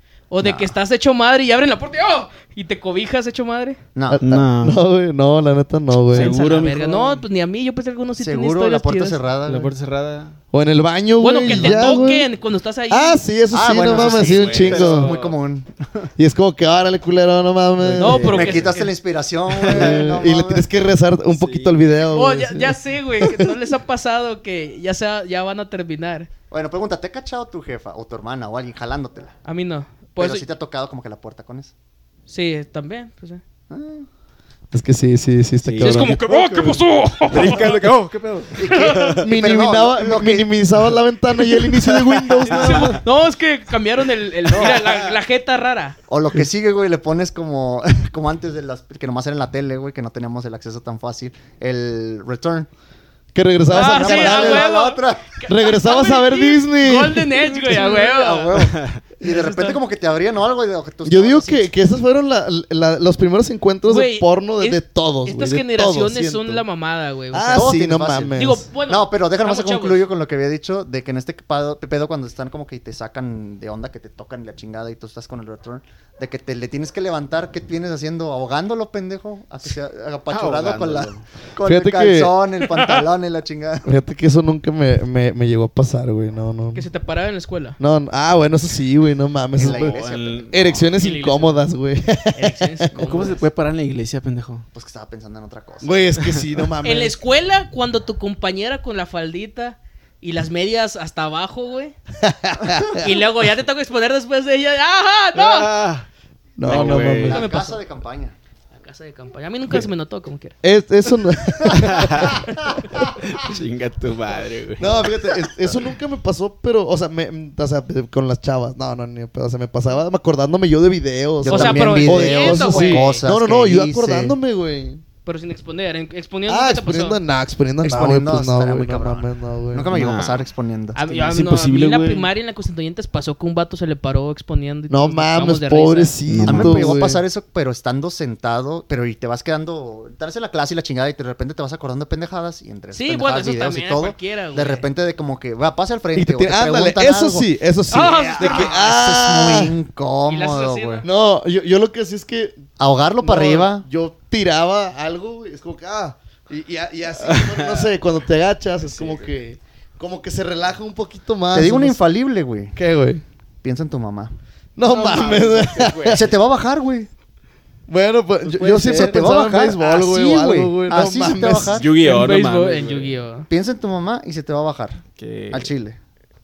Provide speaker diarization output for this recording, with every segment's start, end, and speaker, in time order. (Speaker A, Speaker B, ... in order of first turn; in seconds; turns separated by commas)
Speaker A: 0.3-3.8, Speaker B: 0.4-0.7, Speaker B: 3.9-4.2, Speaker C: 4.1-6.3, Speaker D: 4.2-4.8, Speaker D: 6.1-7.2, Speaker A: 6.1-9.2, Speaker B: 8.2-9.7, Speaker D: 9.4-10.4, Speaker C: 10.5-12.3, Speaker A: 11.2-13.2, Speaker B: 11.5-11.9, Speaker C: 12.9-15.1, Speaker B: 13.5-16.1, Speaker D: 13.8-15.4, Speaker C: 16.2-18.7, Speaker A: 18.0-18.9, Speaker B: 18.0-20.7, Speaker D: 19.5-20.1, Speaker C: 19.6-23.5, Speaker D: 21.3-22.0, Speaker A: 22.1-26.3, Speaker B: 26.5-29.3, Speaker A: 29.4-30.4, Speaker B: 30.2-31.7, Speaker A: 32.3-33.4, Speaker B: 33.7-34.1, Speaker C: 34.7-36.1, Speaker D: 35.6-39.2, Speaker A: 35.8-37.8, Speaker B: 38.6-40.5, Speaker A: 38.6-39.2, Speaker C: 39.2-43.0, Speaker D: 42.4-43.0, Speaker A: 42.4-46.0, Speaker D: 44.6-45.1, Speaker B: 46.1-52.7, Speaker C: 53.3-54.7, Speaker B: 53.7-55.4, Speaker A: 53.7-58.7, Speaker C: 55.5-57.8, Speaker B: 57.6-61.7, Speaker D: 58.6-59.0, Speaker A: 59.2-59.8, Speaker C: 61.0-66.6, Speaker A: 63.9-67.7, Speaker C: 67.3-68.7, Speaker B: 67.5-83.9, Speaker A: 68.3-70.0, Speaker D: 80.3-81.3, Speaker C: 81.6-82.3, Speaker C: 83.8-86.9, Speaker A: 86.7-87.8, Speaker C: 87.8-90.0, Speaker B: 89.6-90.8, Speaker D: 89.6-90.8, Speaker C: 90.5-92.9, Speaker A: 91.0-91.6, Speaker A: 92.3-93.4, Speaker D: 93.0-94.7, Speaker B: 93.0-93.2, Speaker B: 94.7-96.0, Speaker C: 95.8-97.2, Speaker A: 96.8-101.9, Speaker C: 102.2-103.1, Speaker A: 103.0-105.7, Speaker D: 105.3-106.0, Speaker C: 106.6-107.5, Speaker D: 106.6-107.4, Speaker B: 106.7-108.3, Speaker A: 107.3-107.8, Speaker A: 108.7-110.6, Speaker C: 110.6-112.5, Speaker B: 111.6-113.1, Speaker D: 111.7-112.4, Speaker D: 113.0-115.1, Speaker C: 114.8-125.0, Speaker B: 121.4-124.4, Speaker A: 121.5-123.2, Speaker A: 125.2-127.2, Speaker C: 126.5-130.1, Speaker B: 127.8-131.0, Speaker D: 129.9-130.5, Speaker A: 130.9-136.1, Speaker D: 131.1-132.3, Speaker C: 134.9-137.2, Speaker D: 136.3-136.9, Speaker B: 136.4-147.5, Speaker A: 142.9-144.9, Speaker C: 146.1-149.7, Speaker A: 147.9-148.8, Speaker B: 148.4-151.0, Speaker A: 150.3-151.1, Speaker C: 151.0-152.6, Speaker B: 152.8-153.8, Speaker C: 153.2-162.0, Speaker D: 157.2-157.9, Speaker D: 158.8-159.3, Speaker B: 161.5-162.8, Speaker C: 162.7-163.2, Speaker B: 163.6-164.3, Speaker C: 164.8-166.3, Speaker D: 164.8-166.3, Speaker B: 166.0-167.1, Speaker C: 167.9-171.8, Speaker B: 168.4-171.9, Speaker D: 171.7-173.1, Speaker A: 172.0-173.5, Speaker B: 173.5-176.0, Speaker D: 175.2-175.7